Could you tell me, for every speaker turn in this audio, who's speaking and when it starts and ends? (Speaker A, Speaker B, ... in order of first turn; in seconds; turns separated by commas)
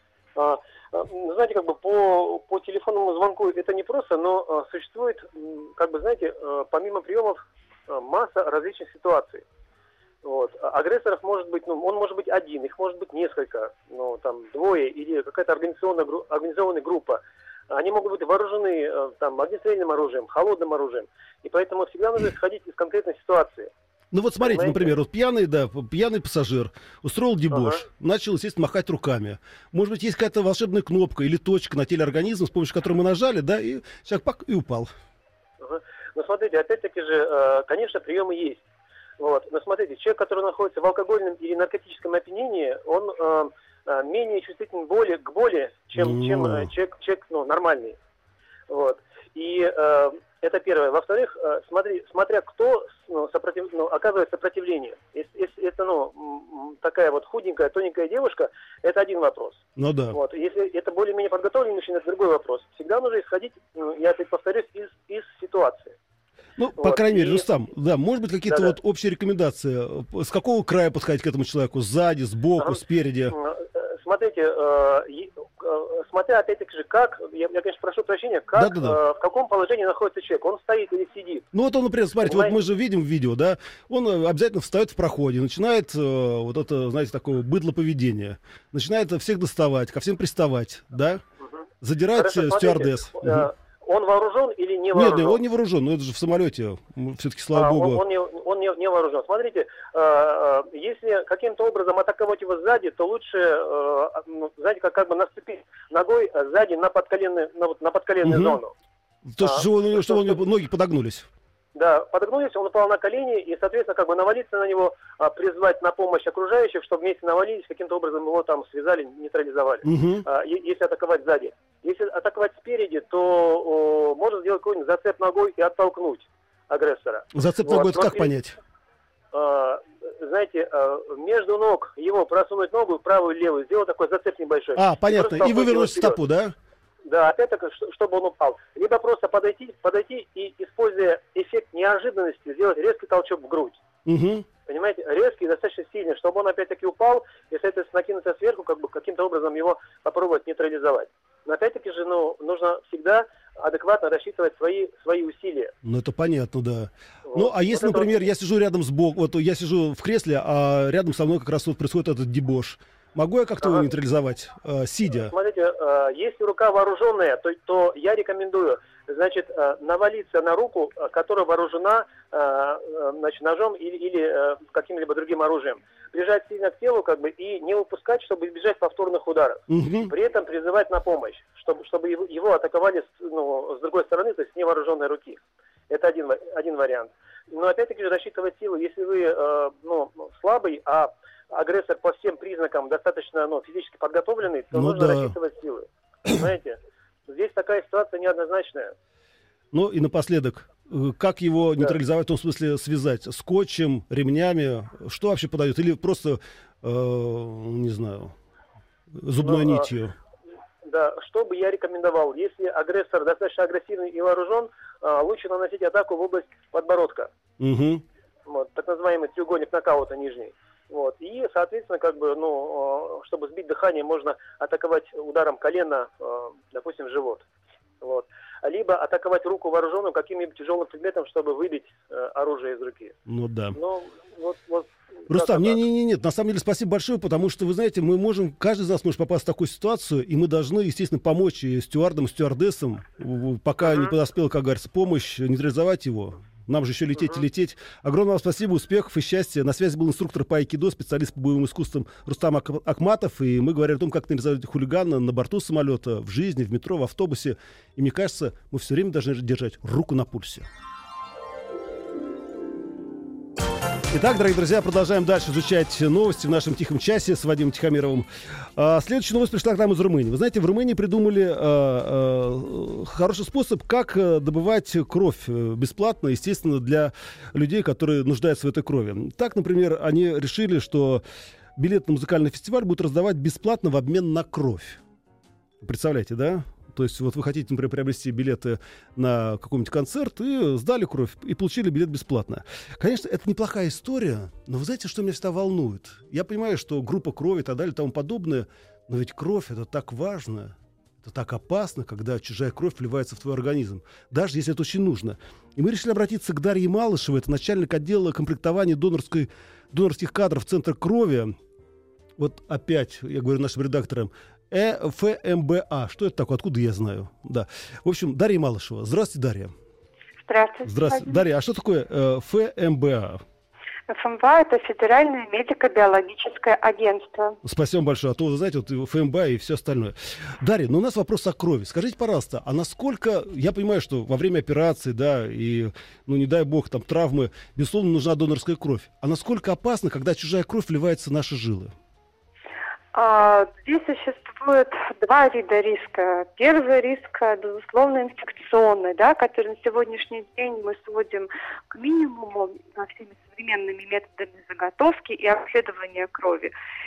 Speaker A: 0.3-9.4, Speaker A: 10.2-23.7, Speaker B: 24.1-34.9, Speaker A: 24.4-24.9, Speaker A: 27.5-27.8, Speaker A: 35.6-38.6, Speaker A: 39.2-48.0, Speaker B: 46.0-46.7, Speaker A: 48.7-65.9, Speaker B: 59.8-60.2, Speaker B: 66.6-73.3, Speaker A: 66.8-67.5, Speaker A: 73.3-81.4, Speaker B: 78.5-79.0, Speaker B: 81.5-91.2, Speaker A: 82.2-82.5, Speaker A: 91.4-95.4, Speaker B: 91.8-93.5, Speaker B: 94.9-98.0, Speaker A: 97.5-108.7, Speaker B: 108.2-108.6, Speaker B: 109.3-111.3, Speaker A: 109.4-110.4, Speaker A: 111.7-128.3, Speaker B: 119.8-120.2, Speaker B: 127.3-128.6, Speaker A: 129.3-136.2, Speaker B: 134.8-136.5, Speaker A: 137.1-143.8, Speaker B: 144.1-144.5, Speaker A: 144.7-155.7, Speaker B: 155.8-165.3, Speaker A: 157.2-158.1, Speaker A: 165.1-198.9, Speaker B: 179.7-180.1, Speaker B: 194.7-195.3, Speaker B: 199.7-208.3, Speaker B: 209.1-210.1, Speaker A: 209.4-209.8, Speaker A: 210.8-217.3, Speaker B: 217.6-218.0, Speaker A: 218.5-227.4, Speaker A: 228.0-233.1, Speaker B: 233.3-233.8, Speaker A: 233.7-235.8, Speaker B: 235.3-260.7, Speaker B: 264.1-281.2, Speaker B: 281.8-285.0, Speaker B: 285.8-311.5, Speaker B: 312.4-319.7, Speaker C: 320.5-321.4, Speaker B: 320.8-323.4, Speaker C: 324.1-327.6, Speaker B: 327.6-341.9, Speaker C: 343.1-356.7